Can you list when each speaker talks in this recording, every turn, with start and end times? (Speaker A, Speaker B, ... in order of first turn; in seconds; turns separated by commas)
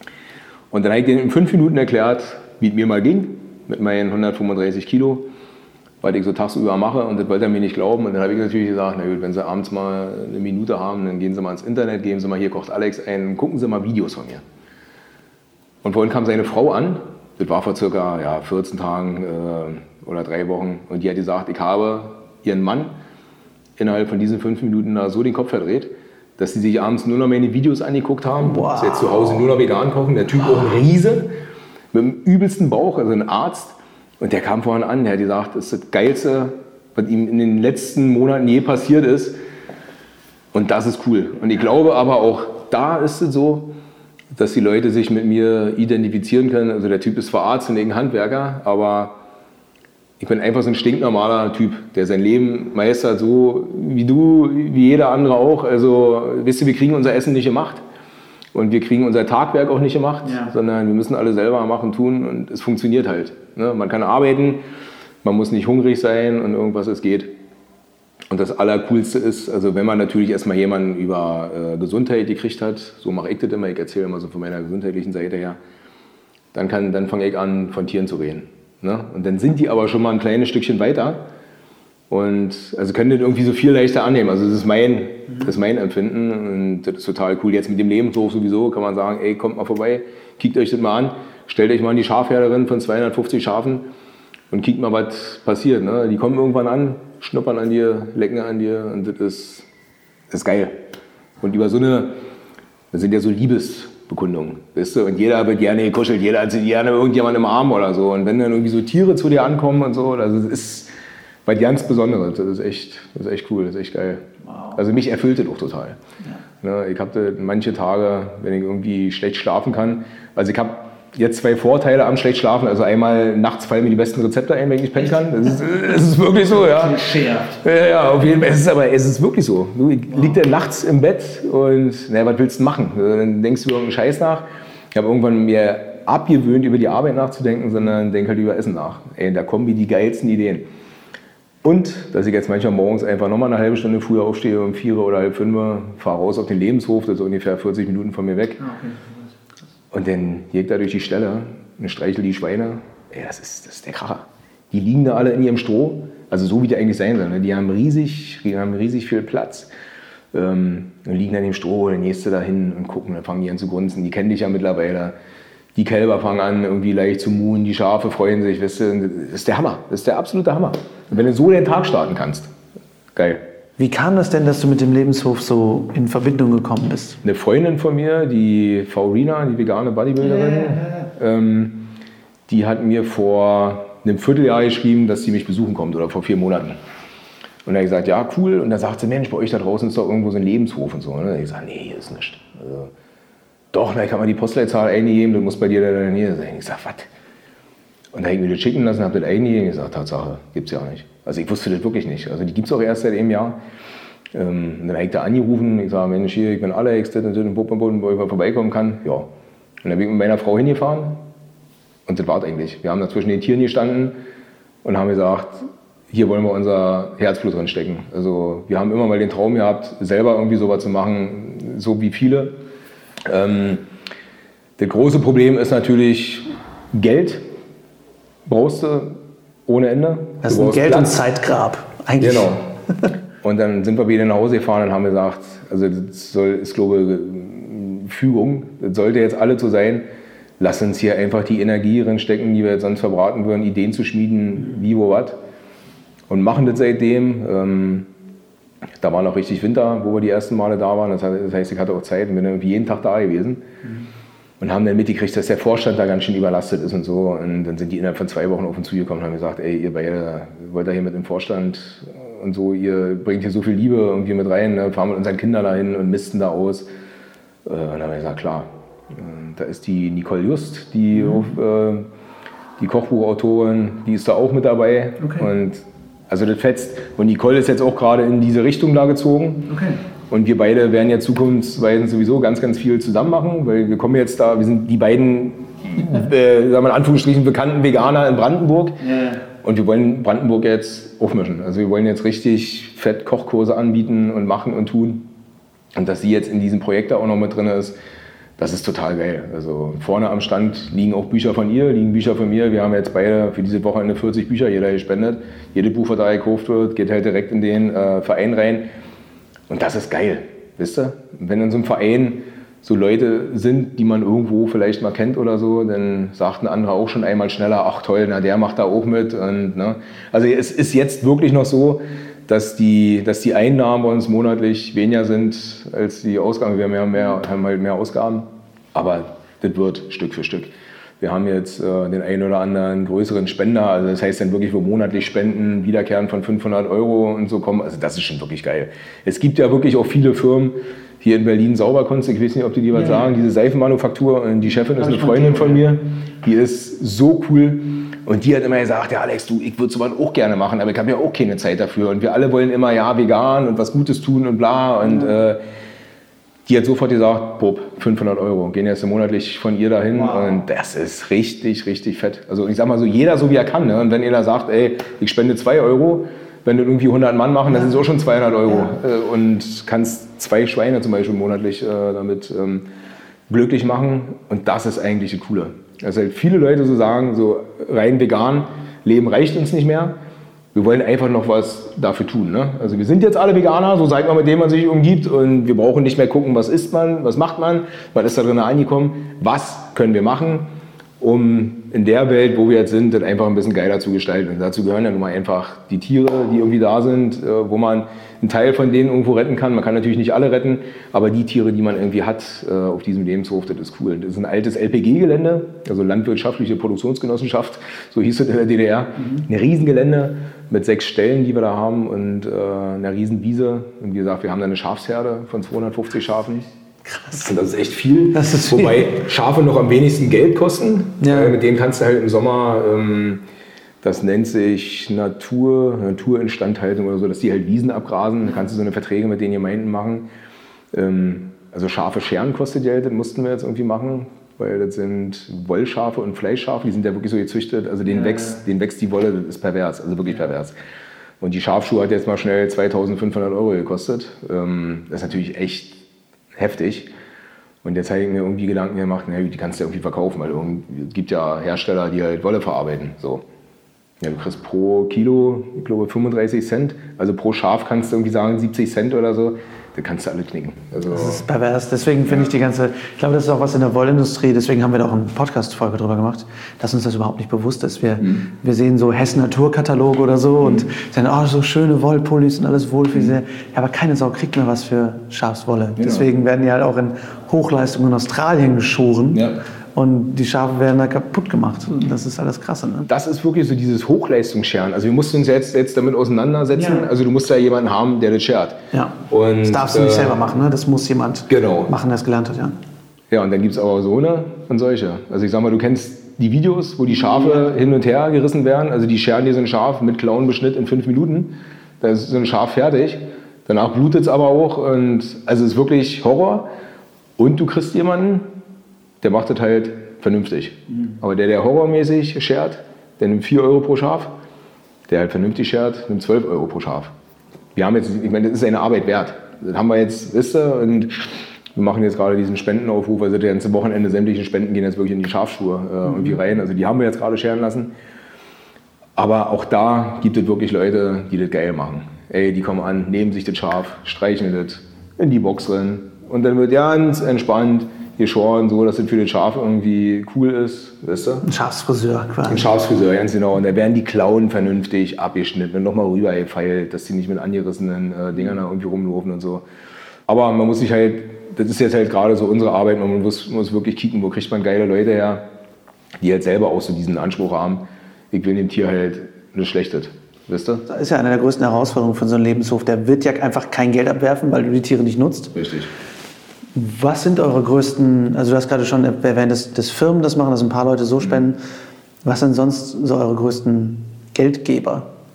Speaker A: 0.7-5.3, Speaker A: 6.0-14.4, Speaker A: 15.8-22.9, Speaker A: 23.8-31.3, Speaker B: 28.4-29.4, Speaker A: 31.9-39.4, Speaker A: 40.5-43.7, Speaker A: 44.3-49.2, Speaker A: 50.2-57.8, Speaker A: 58.5-64.6, Speaker A: 65.2-67.3, Speaker A: 68.3-75.6, Speaker A: 76.5-81.2, Speaker A: 82.1-93.8, Speaker A: 94.5-99.7, Speaker A: 100.3-100.7, Speaker A: 101.4-102.1, Speaker A: 102.9-110.9, Speaker A: 111.5-116.0, Speaker A: 116.6-140.7, Speaker B: 126.9-127.5, Speaker A: 141.6-148.7, Speaker B: 148.7-149.1, Speaker A: 149.9-159.7, Speaker A: 160.3-165.1, Speaker A: 165.7-172.5, Speaker A: 173.1-173.4, Speaker B: 173.8-177.2, Speaker A: 177.2-181.9, Speaker A: 182.5-186.8, Speaker A: 187.7-192.9, Speaker A: 193.7-197.1, Speaker A: 198.1-203.6, Speaker A: 204.3-209.3, Speaker A: 209.8-211.2, Speaker A: 212.1-214.1, Speaker A: 214.8-222.6, Speaker A: 223.2-223.8, Speaker A: 224.8-227.4, Speaker A: 228.4-231.2, Speaker B: 230.4-232.5, Speaker A: 232.2-232.6, Speaker A: 233.4-240.0, Speaker A: 240.6-245.4, Speaker A: 246.3-248.1, Speaker A: 249.0-253.6, Speaker A: 254.6-266.9, Speaker A: 267.6-272.1, Speaker A: 272.8-279.7, Speaker B: 279.7-280.0, Speaker A: 280.3-289.0, Speaker B: 289.0-289.4, Speaker A: 289.5-295.3, Speaker A: 295.9-298.0, Speaker A: 298.6-308.9, Speaker A: 309.7-355.6, Speaker B: 345.1-345.7, Speaker A: 356.6-372.8, Speaker A: 373.5-380.1, Speaker A: 380.7-390.7, Speaker A: 391.2-416.7, Speaker A: 417.3-423.4, Speaker B: 418.3-419.1, Speaker B: 421.2-421.6, Speaker A: 424.0-430.2, Speaker A: 430.9-440.7, Speaker A: 441.4-446.0, Speaker A: 446.5-447.1, Speaker A: 447.8-453.4, Speaker A: 454.2-461.4, Speaker B: 461.1-483.1, Speaker A: 476.0-476.3, Speaker A: 483.1-488.8, Speaker B: 486.7-487.1, Speaker B: 488.9-492.8, Speaker A: 489.3-490.4, Speaker A: 491.5-491.9, Speaker A: 493.3-506.7, Speaker A: 507.4-508.5, Speaker A: 509.2-514.3, Speaker A: 515.1-517.1, Speaker A: 517.7-527.9, Speaker A: 529.2-541.4, Speaker B: 541.4-542.7, Speaker A: 542.5-549.6, Speaker A: 550.3-555.4, Speaker A: 556.2-560.8, Speaker B: 560.9-565.5, Speaker A: 565.5-565.9, Speaker B: 566.7-571.6, Speaker B: 572.2-575.1